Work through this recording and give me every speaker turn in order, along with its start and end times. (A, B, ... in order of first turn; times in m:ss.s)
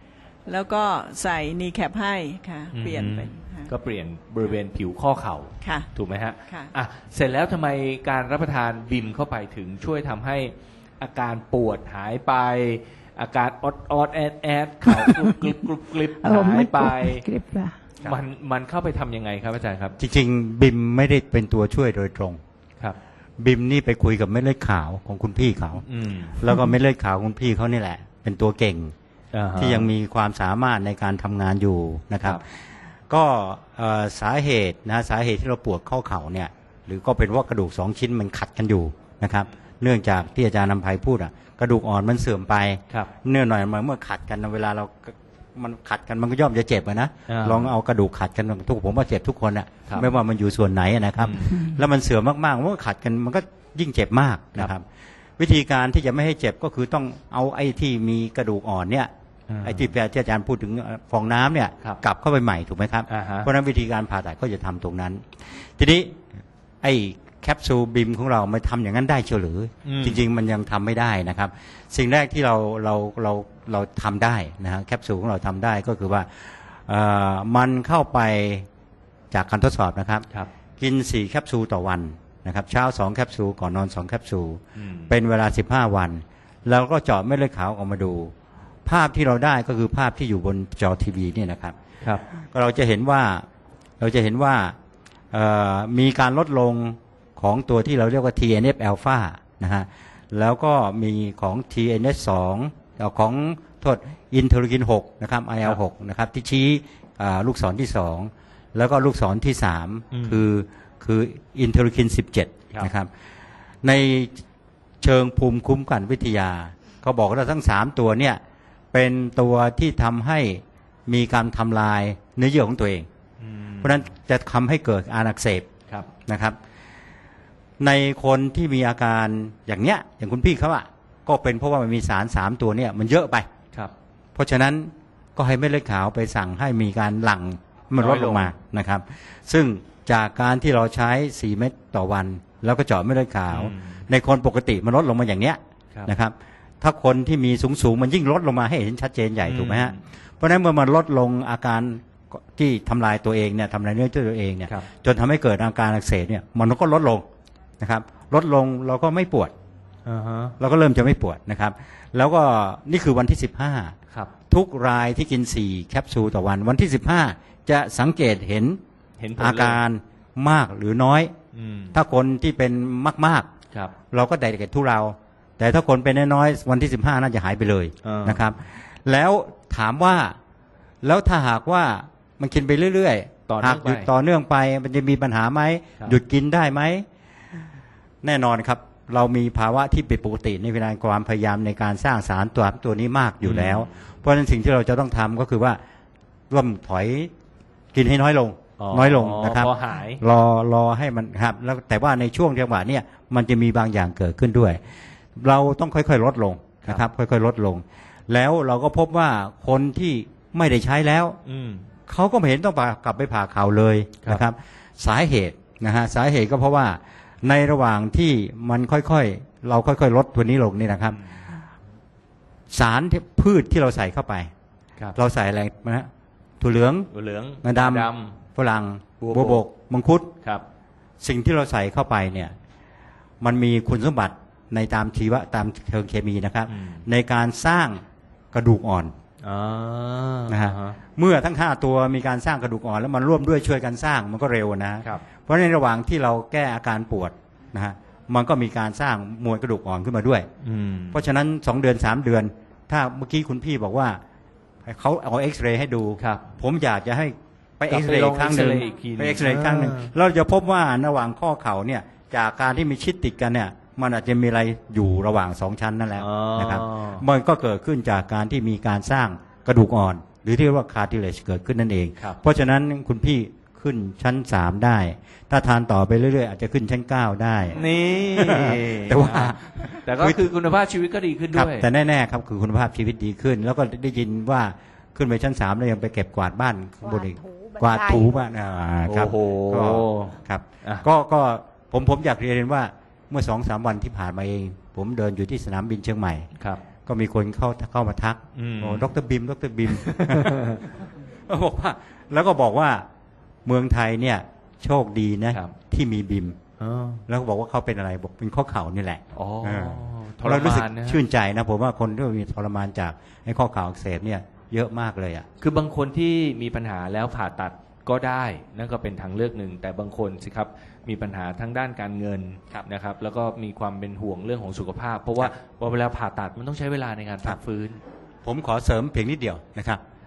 0:00.4-0:03.7 A
0:02.7-0:17.2 B
0:05.6-0:05.9 A
0:16.2-0:17.8 C
0:18.0-0:19.9 B
0:20.0-0:22.4 D
0:23.4-0:25.8 D
0:25.8-0:26.4 B
0:26.4-0:28.9 D
0:29.3-0:29.9 B
0:29.6-0:32.6 D
0:33.1-0:54.8 D
0:47.3-0:47.7 B
0:51.2-0:51.6 B
0:55.4-0:59.1 D
0:59.5-0:59.9 B
0:59.6-1:06.2 D
1:03.1-1:03.5 B
1:06.8-1:18.6 D
1:09.8-1:10.2 B
1:19.3-1:20.2 D
1:20.8-1:28.3 D
1:24.8-1:25.1 B
1:28.8-1:31.8 D
1:32.4-1:33.4 D
1:34.0-1:34.7 D
1:35.3-1:53.1 D
1:50.1-1:50.4 B
1:53.8-1:54.4 D
1:55.0-1:58.4 D
1:58.9-2:03.1 D
2:03.4-2:04.0 B
2:03.8-2:05.7 D
2:06.3-2:06.6 D
2:07.8-2:13.5 D
2:14.4-2:37.2 D
2:18.0-2:18.5 B
2:23.5-2:24.0 B
2:29.4-2:30.0 B
2:37.8-2:39.5 D
2:40.0-2:40.5 B
2:40.6-2:44.0 D
2:44.5-2:48.8 D
2:49.2-2:49.8 B
2:49.4-2:51.3 D
2:51.5-2:52.0 B
2:51.9-2:53.5 D
2:54.1-3:00.4 D
2:58.0-2:58.4 B
3:01.0-3:07.0 D
3:03.5-3:04.1 B
3:08.2-3:15.8 D
3:13.4-3:13.9 B
3:16.5-3:17.3 D
3:17.9-3:24.8 D
3:18.8-3:20.2 B
3:25.4-3:31.4 D
3:31.4-3:31.9 B
3:32.1-3:41.2 D
3:42.7-3:44.5 D
3:45.1-3:46.1 D
3:46.6-3:47.1 D
3:47.1-3:48.4 B
3:47.6-3:50.3 D
3:49.2-3:49.6 B
3:51.2-3:52.5 D
3:53.4-3:59.1 D
3:56.7-3:57.0 B
3:59.4-4:01.0 B
4:00.5-4:10.5 D
4:10.6-4:11.2 B
4:11.1-4:14.2 D
4:14.8-4:37.8 D
4:16.2-4:16.4 B
4:17.9-4:20.1 B
4:26.2-4:27.2 B
4:37.7-4:41.9 B
4:38.3-4:40.5 D
4:41.5-4:56.5 D
4:47.0-4:48.4 C
4:49.0-4:51.0 B
4:57.0-5:03.0 D
4:58.5-4:59.1 B
4:59.9-5:00.8 B
5:03.6-5:06.6 D
5:06.8-5:07.2 B
5:07.3-5:15.4 D
5:09.3-5:11.2 B
5:15.6-5:28.0 B
5:28.4-5:30.0 D